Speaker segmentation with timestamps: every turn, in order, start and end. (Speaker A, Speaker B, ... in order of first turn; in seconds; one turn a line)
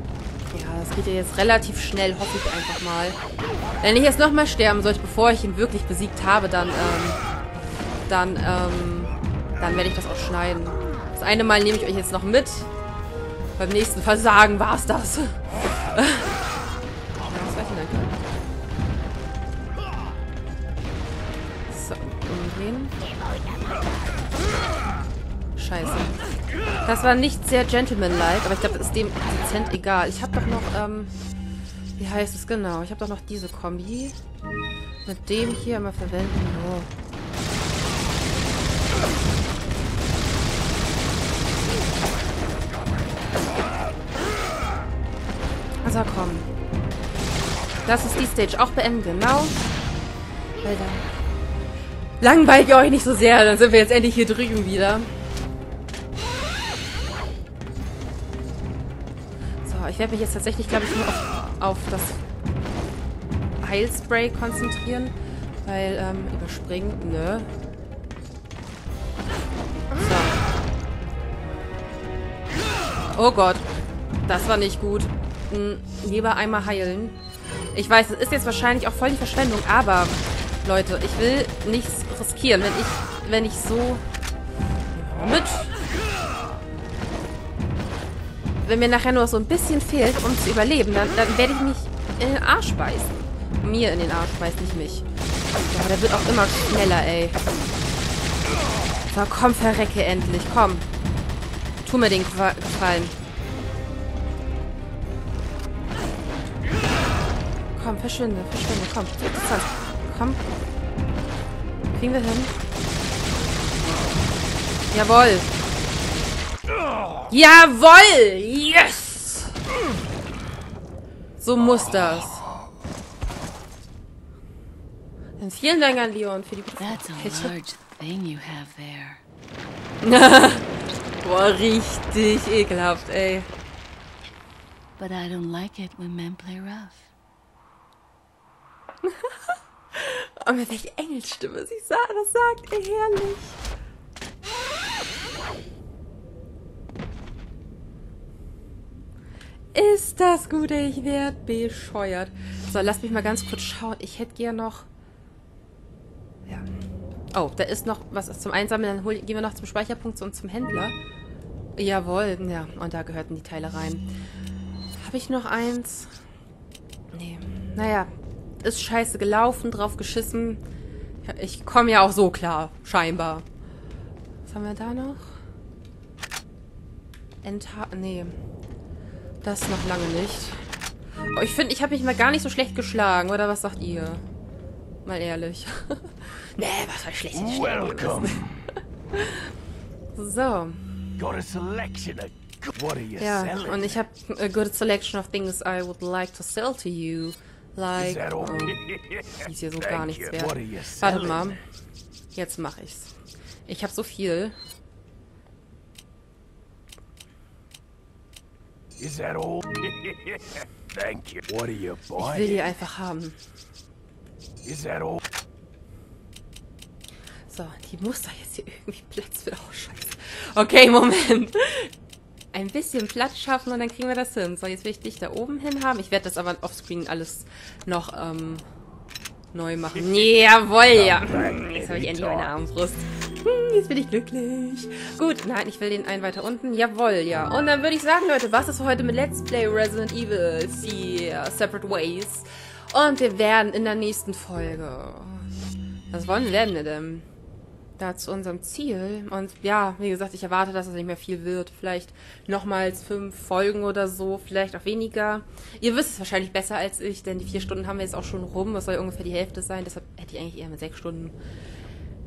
Speaker A: 0.5-3.2
Speaker A: 3.8-7.2
Speaker A: 8.1-12.7
Speaker A: 13.6-16.3
Speaker A: 17.2-18.1
Speaker A: 21.7-22.9
Speaker A: 25.6-26.1
Speaker A: 26.8-31.1
Speaker A: 32.0-34.2
Speaker A: 35.1-36.9
Speaker A: 45.8-46.5
Speaker A: 47.9-49.6
Speaker A: 50.6-51.1
Speaker A: 52.2-55.1
Speaker A: 59.6-62.2
Speaker A: 63.6-67.5
Speaker A: 70.0-70.4
Speaker A: 73.1-73.7
Speaker A: 74.3-77.2
Speaker A: 77.7-84.0
Speaker A: 85.0-85.8
Speaker A: 88.6-95.0
Speaker A: 95.6-97.4
Speaker A: 99.1-100.9
Speaker A: 101.8-103.2
Speaker A: 107.7-110.4
Speaker A: 111.9-112.6
Speaker A: 114.9-115.5
Speaker A: 117.3-119.5
Speaker A: 121.4-122.5
Speaker A: 125.4-127.5
Speaker B: 126.8-129.2
Speaker A: 130.0-130.7
Speaker A: 131.2-133.5
Speaker B: 135.0-137.1
Speaker A: 139.0-143.6
Speaker A: 149.7-154.9
Speaker A: 157.3-160.9
Speaker A: 161.8-164.0
Speaker A: 165.0-166.1
Speaker A: 167.1-168.1
Speaker A: 168.6-170.6
Speaker A: 171.2-173.4
Speaker A: 174.5-175.3
Speaker A: 177.4-178.3
Speaker A: 179.4-180.7
Speaker A: 181.3-184.2
Speaker A: 185.1-188.4
Speaker C: 187.3-188.7
Speaker A: 189.1-189.5
Speaker A: 190.2-190.8
Speaker C: 191.2-194.0
Speaker A: 193.2-198.8
Speaker C: 197.9-201.6
Speaker A: 199.4-201.6
Speaker A: 202.3-203.1
Speaker A: 203.7-204.6
Speaker C: 209.0-212.6
Speaker A: 212.2-213.4
Speaker C: 214.6-215.2
Speaker A: 217.5-221.9
Speaker A: 222.5-228.6
Speaker A: 229.5-245.5
Speaker C: 230.9-232.5
Speaker A: 246.1-247.2
Speaker A: 248.0-261.4